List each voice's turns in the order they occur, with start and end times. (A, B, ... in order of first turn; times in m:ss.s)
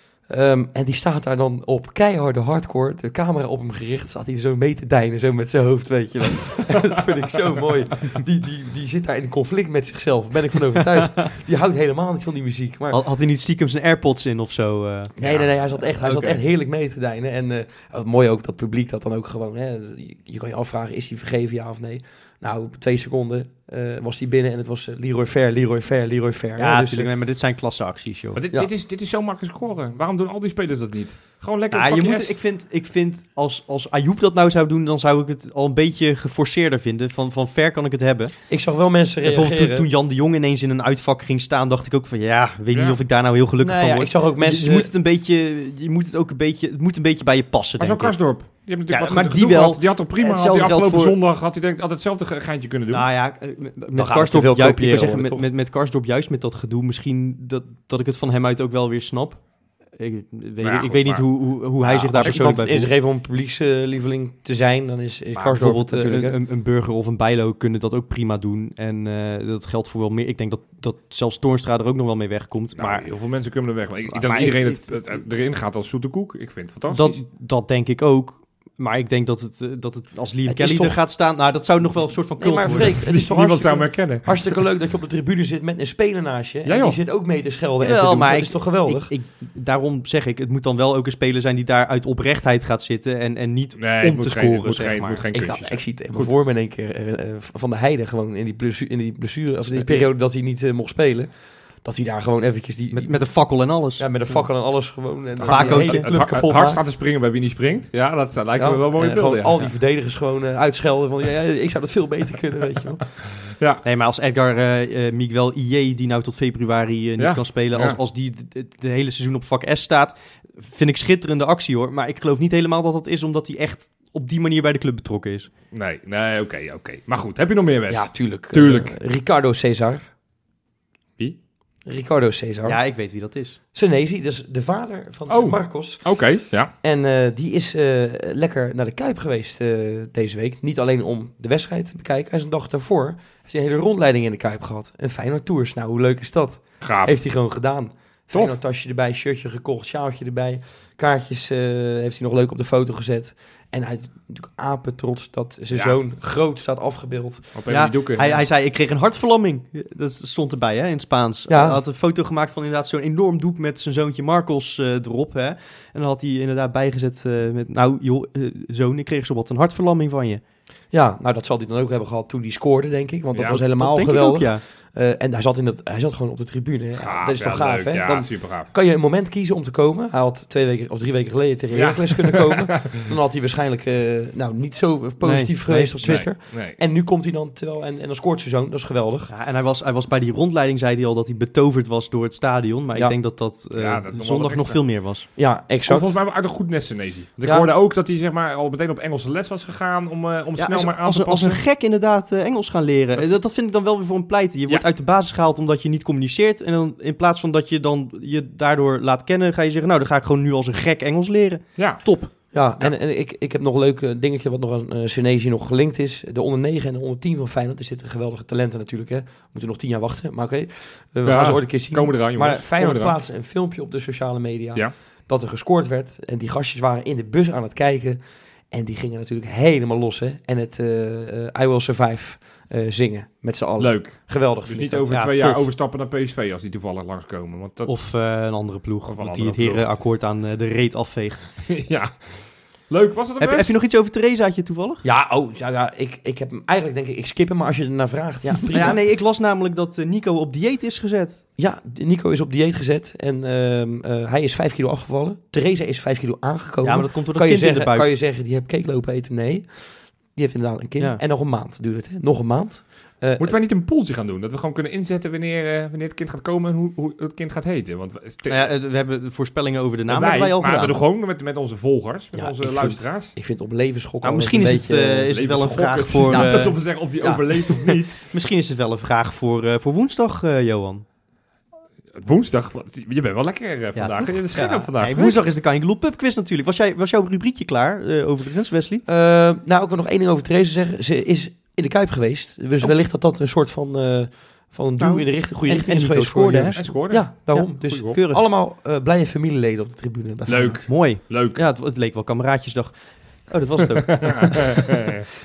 0:00.3-0:13.0 A
0:12.9-0:15.1 B
0:15.2-0:27.1 A
0:15.2-0:16.4 C
0:26.6-0:28.4 B
0:28.4-0:32.4 C
0:31.7-0:38.4 B
0:38.5-0:39.9 A
0:39.2-0:48.2 B
0:42.7-0:43.0 C
0:43.6-0:44.9 A
0:47.8-0:53.1 C
0:48.9-0:51.2 B
0:52.9-0:59.4 B
0:54.0-0:55.5 A
0:59.9-1:02.9 B
1:00.6-1:01.3 C
1:01.8-1:06.4 A
1:05.4-1:13.1 B
1:12.8-1:17.2 C
1:14.1-1:15.2 B
1:16.9-1:23.0 B
1:20.4-1:21.0 A
1:22.4-1:29.1 A
1:22.7-1:24.3 C
1:26.6-1:27.0 C
1:27.8-1:35.2 B
1:33.8-1:36.3 C
1:35.3-1:43.2 A
1:42.9-1:44.0 B
1:44.0-1:46.8 A
1:45.4-1:49.7 C
1:45.5-1:46.1 B
1:48.6-1:53.1 A
1:53.6-1:53.8 C
1:53.8-2:05.5 B
1:57.2-1:58.0 C
2:05.7-2:09.0 C
2:07.9-2:10.1 A
2:11.8-2:12.8 A
2:12.6-2:13.6 B
2:13.7-2:16.1 A
2:15.3-2:16.7 C
2:16.8-2:37.5 A
2:26.8-2:27.2 C
2:35.7-2:36.0 C
2:37.6-2:38.4 C
2:37.7-2:50.4 B
2:41.5-2:41.8 A
2:50.9-3:09.3 A
2:53.5-2:54.6 B
2:57.0-2:58.7 C
3:01.7-3:03.1 C
3:05.2-3:06.2 B
3:06.0-3:06.8 C
3:09.3-3:15.3 B
3:13.8-3:14.8 C
3:15.4-3:16.2 A
3:15.9-3:21.6 C
3:17.4-3:17.7 A
3:20.6-3:32.3 B
3:31.8-3:32.0 C
3:32.5-3:48.2 A
3:41.2-3:43.2 C
3:48.7-3:55.6 A
3:53.8-3:58.0 C
3:55.1-3:55.6 B
3:57.8-4:01.5 B
3:59.0-4:00.0 C
4:01.7-4:03.8 C
4:03.4-4:05.0 B
4:05.0-4:09.0 A
4:08.7-4:11.4 B
4:11.6-4:23.6 A
4:16.8-4:18.1 B
4:23.4-4:28.7 C
4:28.5-4:31.0 B
4:30.1-4:33.4 C
4:32.4-4:35.4 A
4:34.2-4:36.8 B
4:35.3-4:38.2 C
4:36.2-4:37.8 A
4:38.2-4:41.0 B
4:42.2-4:45.4 C
4:44.0-4:49.0 B
4:49.1-5:00.8 A
4:55.0-4:56.8 B
4:56.8-4:57.3 C
4:57.5-4:58.4 B
4:57.8-4:58.1 C
5:00.5-5:01.6 C
5:00.9-5:02.9 B
5:03.5-5:05.0 B
5:04.1-5:05.3 C